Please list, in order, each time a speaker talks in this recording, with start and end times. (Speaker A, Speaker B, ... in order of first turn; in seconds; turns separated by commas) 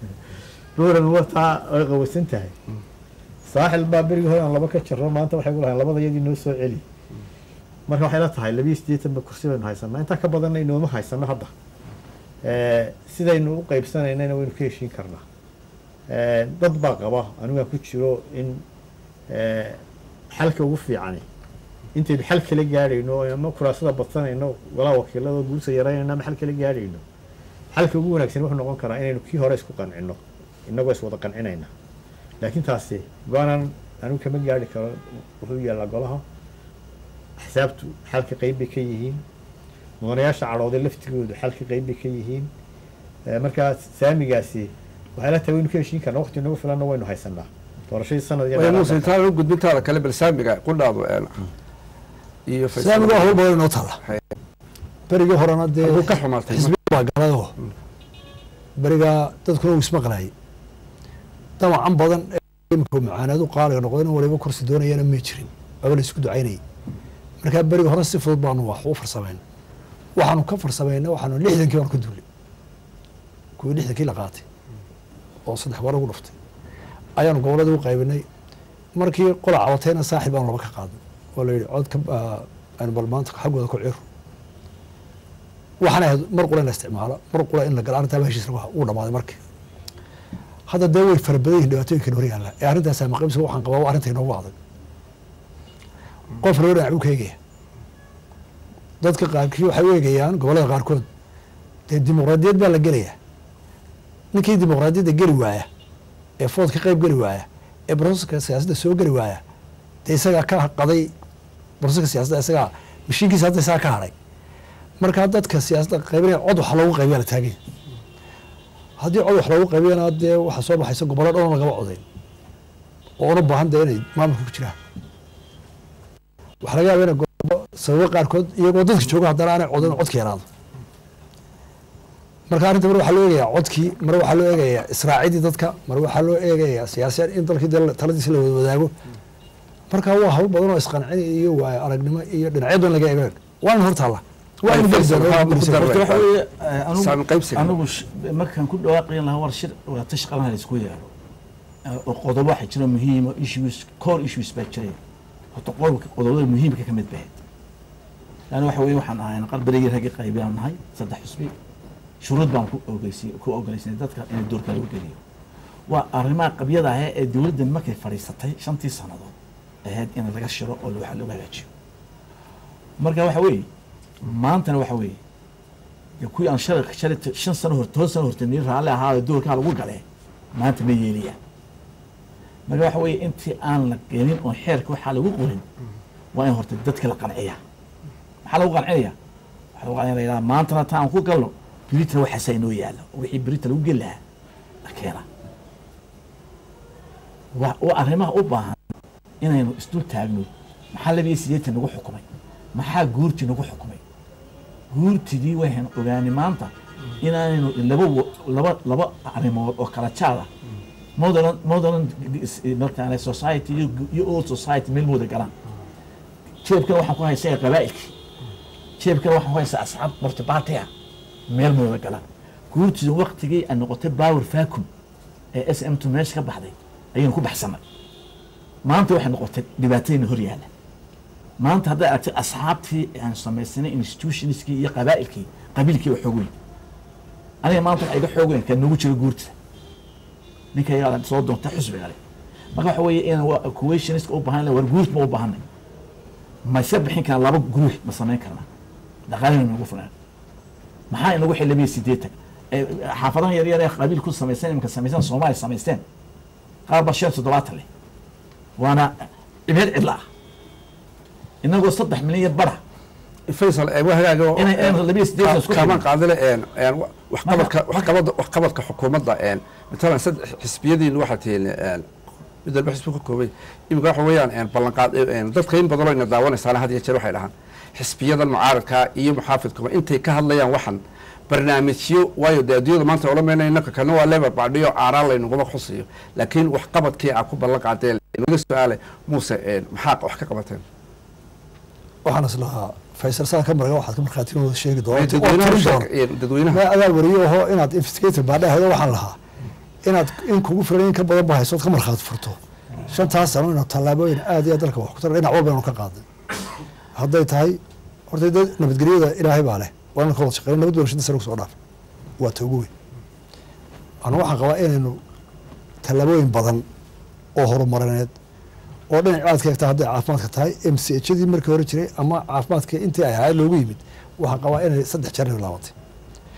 Speaker A: 0.8-2.5, Speaker A: 3.5-6.8, Speaker A: 7.9-11.5, Speaker A: 12.4-15.2, Speaker A: 16.1-18.6, Speaker A: 19.3-21.2, Speaker A: 21.9-27.0, Speaker A: 27.7-31.7, Speaker A: 32.4-36.2, Speaker A: 37.4-39.2, Speaker A: 40.0-42.5, Speaker A: 43.3-49.1, Speaker B: 48.5-51.5, Speaker B: 52.5-53.4, Speaker C: 52.8-54.0, Speaker C: 55.1-57.5, Speaker B: 55.8-56.7, Speaker C: 58.8-60.3, Speaker C: 61.6-66.6, Speaker C: 67.4-69.4, Speaker C: 70.2-72.2, Speaker C: 73.6-74.5, Speaker C: 75.5-76.3, Speaker C: 77.2-78.3, Speaker C: 79.0-84.0, Speaker C: 85.8-89.4, Speaker C: 90.7-94.6, Speaker C: 96.4-97.4, Speaker C: 99.0-101.1, Speaker C: 101.9-103.2, Speaker C: 104.3-105.7, Speaker C: 106.4-109.4, Speaker C: 110.0-111.1, Speaker C: 111.8-114.1, Speaker C: 115.0-117.6, Speaker C: 119.0-122.0, Speaker C: 123.2-124.8, Speaker C: 126.6-130.4, Speaker C: 132.5-138.9, Speaker C: 139.9-146.0, Speaker B: 144.7-146.3, Speaker D: 145.7-151.1, Speaker B: 146.9-147.7, Speaker D: 151.8-155.0, Speaker D: 155.5-157.3, Speaker D: 158.5-161.5, Speaker D: 162.2-165.2, Speaker D: 165.9-169.3, Speaker D: 169.8-171.7, Speaker D: 173.0-173.7, Speaker D: 174.2-175.2, Speaker D: 176.2-180.0, Speaker D: 180.5-181.4, Speaker D: 182.7-185.7, Speaker D: 186.3-187.6, Speaker D: 188.4-189.1, Speaker D: 189.8-194.2, Speaker D: 194.8-195.2, Speaker D: 197.5-198.8, Speaker D: 199.4-202.2, Speaker D: 202.7-204.0, Speaker D: 204.9-210.5, Speaker D: 211.2-215.5, Speaker D: 216.6-218.1, Speaker D: 219.0-220.9, Speaker D: 221.5-224.9, Speaker D: 225.5-227.8, Speaker D: 228.8-230.7, Speaker D: 231.6-236.5, Speaker D: 237.6-239.5, Speaker D: 240.7-242.2, Speaker D: 242.7-245.6, Speaker D: 246.7-248.7, Speaker D: 249.3-250.1, Speaker D: 251.1-256.0, Speaker D: 256.9-257.9, Speaker D: 258.8-260.2, Speaker D: 261.6-262.8, Speaker B: 263.5-272.1, Speaker D: 264.6-266.1, Speaker D: 267.5-268.1, Speaker B: 272.6-290.8, Speaker C: 292.2-296.1, Speaker B: 295.1-296.9, Speaker C: 296.7-299.4, Speaker C: 300.0-306.2, Speaker C: 307.1-311.8, Speaker C: 312.4-312.9, Speaker C: 314.2-315.2, Speaker C: 316.0-316.8, Speaker C: 317.6-318.3, Speaker C: 319.1-325.9